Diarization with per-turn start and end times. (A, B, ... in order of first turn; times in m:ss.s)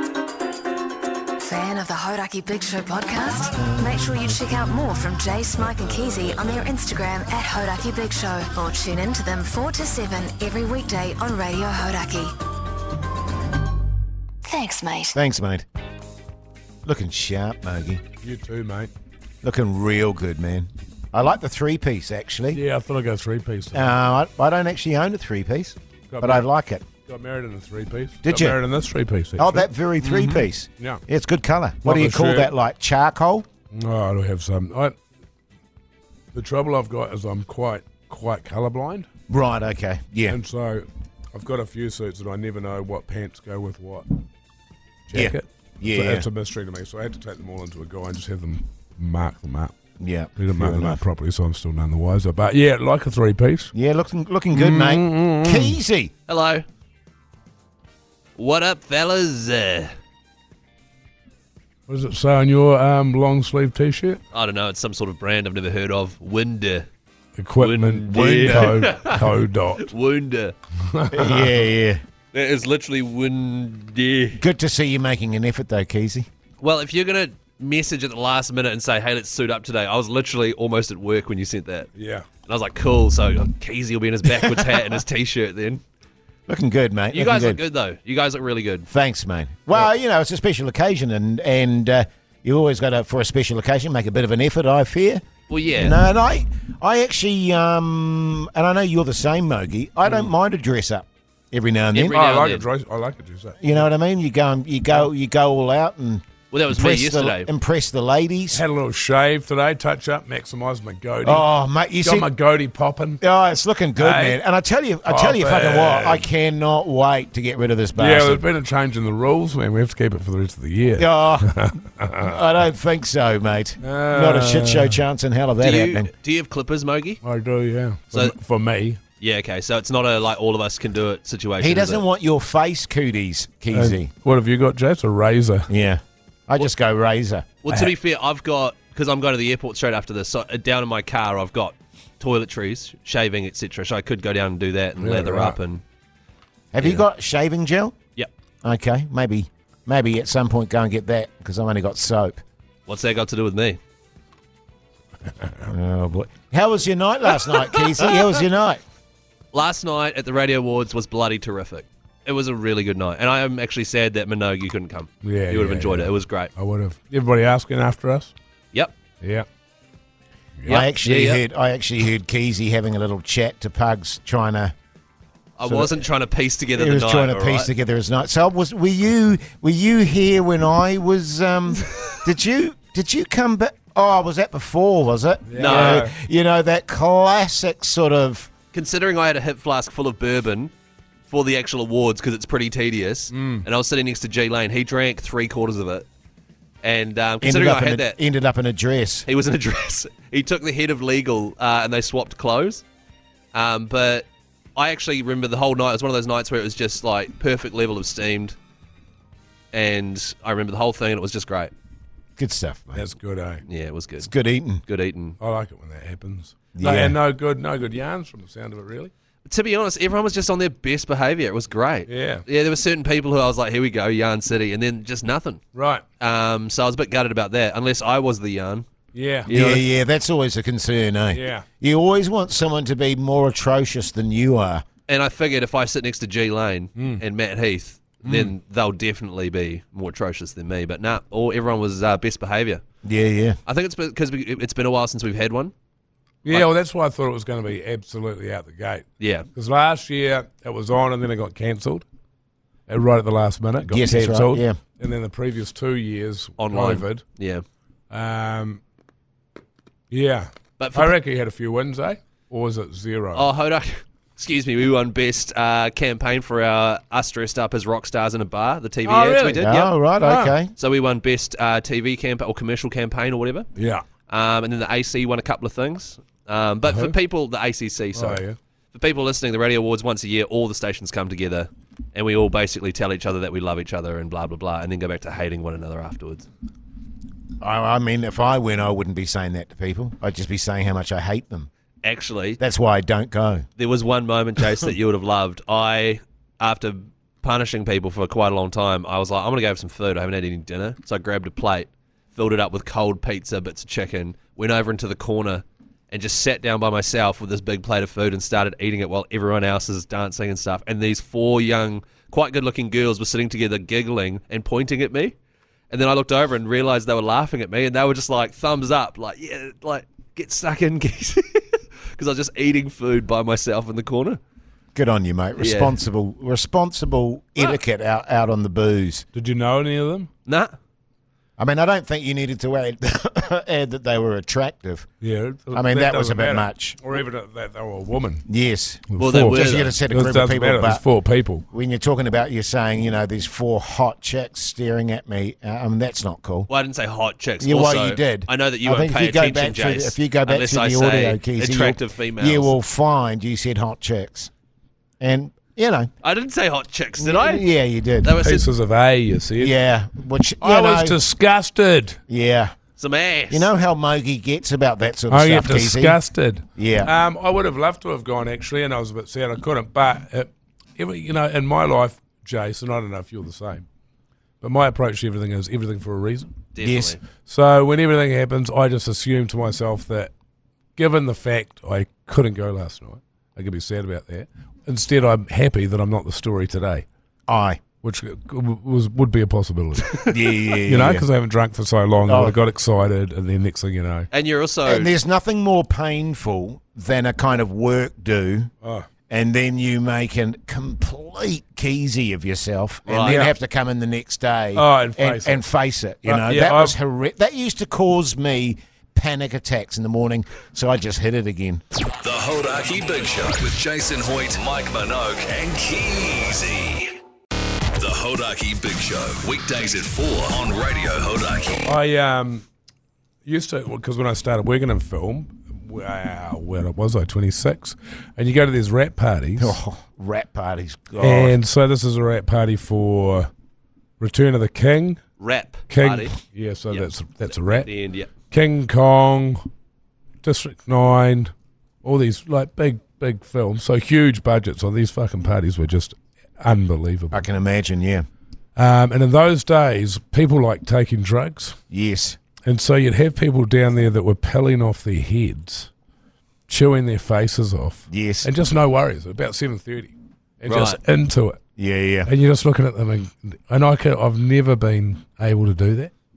0:01.4-0:12.4 A
0:05.9-0:06.6 B
0:14.4-0:15.2 A
0:15.1-0:15.6 C
0:16.8-0:18.0 C
0:18.2-0:18.9 D
0:19.4-0:22.6 C
0:22.5-0:24.0 D
0:23.7-0:26.9 C
0:26.1-0:26.5 D
0:27.1-0:31.0 D
0:28.2-0:28.6 C
0:29.4-0:33.5 C
0:31.8-0:32.5 D
0:33.7-0:35.0 D
0:36.3-0:39.1 D
0:39.3-0:40.4 C
0:40.3-0:44.2 D
0:45.1-0:49.8 D
0:45.1-0:46.3 C
0:50.0-0:51.0 C
0:50.4-0:53.7 D
0:53.7-0:56.1 C
0:54.5-0:55.8 D
0:56.3-0:56.6 B
0:58.4-0:59.9 B
1:01.9-1:04.2 D
1:04.3-1:06.9 B
1:07.4-1:09.9 D
1:07.6-1:09.3 B
1:09.8-1:10.6 B
1:10.9-1:11.5 D
1:11.1-1:12.0 C
1:12.3-1:14.4 B
1:14.4-1:16.3 C
1:16.6-1:21.9 B
1:22.0-1:22.3 D
1:22.5-1:25.8 B
1:24.3-1:24.9 C
1:26.5-1:27.6 C
1:27.1-1:28.9 B
1:28.9-1:35.2 C
1:35.5-1:36.0 B
1:35.8-1:42.2 C
1:41.9-1:42.6 B
1:42.1-1:43.8 D
1:43.6-1:48.6 C
1:46.5-1:47.5 B
1:48.5-1:51.5 D
1:51.2-1:52.3 C
1:52.0-1:53.2 D
1:53.2-1:58.5 C
1:54.0-1:54.4 D
1:55.0-1:56.3 D
1:58.0-2:02.4 D
2:00.9-2:01.6 C
2:02.2-2:06.1 C
2:03.8-2:05.0 D
2:05.6-2:07.2 B
2:07.2-2:09.0 D
2:09.2-2:12.1 B
2:11.6-2:14.1 C
2:13.7-2:15.7 D
2:15.7-2:17.5 C
2:17.6-2:25.8 B
2:25.0-2:25.6 D
2:26.7-2:28.0 C
2:28.6-2:32.4 C
2:32.9-2:33.8 B
2:35.4-2:38.8 C
2:39.5-2:46.5 B
2:45.2-2:48.3 D
2:49.2-2:49.5 D
2:50.7-2:51.4 B
2:50.7-2:54.7 C
2:55.6-2:57.7 B
2:55.6-2:56.1 C
2:56.7-3:08.5 C
3:05.5-3:06.2 D
3:05.6-3:06.1 B
3:08.7-3:10.7 B
3:11.3-3:16.1 B
3:13.3-3:13.7 D
3:16.8-3:18.2 B
3:17.4-3:19.3 C
3:19.3-3:22.8 B
3:23.5-3:28.6 B
3:29.7-3:31.7 B
3:32.4-3:33.1 C
3:33.0-3:33.6 D
3:33.7-3:34.3 B
3:34.2-3:34.8 C
3:34.8-3:35.4 B
3:35.4-3:39.1 D
3:36.8-3:37.2 C
3:39.4-3:45.6 B
3:42.1-3:42.4 D
3:45.8-3:46.0 D
3:46.2-3:48.9 B
3:49.1-3:49.8 D
3:49.5-3:54.8 C
3:49.5-3:49.8 B
3:51.3-3:51.7 D
3:55.1-4:02.8 B
3:57.0-3:57.2 D
3:58.2-3:58.5 D
4:03.0-4:03.6 C
4:03.7-4:05.7 B
4:06.4-4:12.0 D
4:09.2-4:09.5 B
4:12.9-4:17.2 D
4:13.9-4:14.8 C
4:16.6-4:17.6 B
4:18.1-4:18.8 D
4:20.1-4:23.5 D
4:20.8-4:21.2 B
4:23.3-4:29.9 B
4:29.1-4:29.7 D
4:29.6-4:30.7 C
4:30.2-4:30.6 D
4:30.8-4:33.7 B
4:33.8-4:34.0 D
4:34.3-4:46.5 B
4:36.9-4:37.1 D
4:38.1-4:38.6 D
4:47.6-4:51.7 C
4:52.0-4:52.6 B
4:52.6-4:53.7 C
4:53.8-5:15.4 B
5:15.9-5:24.4 B
5:25.0-5:29.2 C
5:25.6-5:26.0 B
5:29.3-5:30.3 D
5:30.5-5:30.8 B
5:31.6-5:35.1 C
5:35.2-5:38.5 D
5:35.7-5:37.0 C
5:38.5-5:41.0 C
5:39.1-5:41.6 D
5:39.2-5:40.0 B
5:41.7-5:46.7 C
5:46.7-5:52.8 B
5:47.6-5:54.5 C
5:55.2-5:56.1 C
5:56.2-5:57.6 B
5:57.2-5:58.3 C
5:58.2-5:58.7 B
5:58.4-5:59.7 D
5:59.6-6:01.2 C
6:00.6-6:02.2 D
6:02.3-6:02.8 C
6:03.0-6:03.7 B
6:03.5-6:06.2 C
6:05.3-6:13.8 D
6:06.8-6:07.1 C
6:14.6-6:16.5 D
6:16.7-6:17.2 B
6:16.8-6:17.2 C
6:17.4-6:20.3 D
6:21.0-6:27.1 D
6:27.5-6:27.8 C
6:28.0-6:34.3 D
6:30.3-6:31.3 C
6:32.3-6:32.6 C
6:34.3-6:35.1 B
6:34.9-6:38.7 C
6:38.8-6:39.1 D
6:39.3-6:51.8 C
6:43.1-6:43.5 B
6:44.8-6:45.6 D
6:46.2-6:47.0 D
6:52.2-6:57.1 E
6:58.0-7:01.9 E
7:01.8-7:02.7 D
7:03.4-7:09.8 D
7:09.6-7:11.6 C
7:11.2-7:13.5 D
7:14.2-7:15.2 D
7:15.4-7:16.4 B
7:15.9-7:17.9 D
7:17.6-7:18.3 B
7:18.5-7:19.7 D
7:20.4-7:27.5 D
7:27.3-7:28.3 C
7:28.8-7:31.8 D
7:31.9-7:32.4 C
7:32.6-7:35.9 D
7:36.7-7:41.6 D
7:38.1-7:38.5 C
7:40.7-7:41.0 B
7:41.8-7:42.3 C
7:42.2-7:46.1 D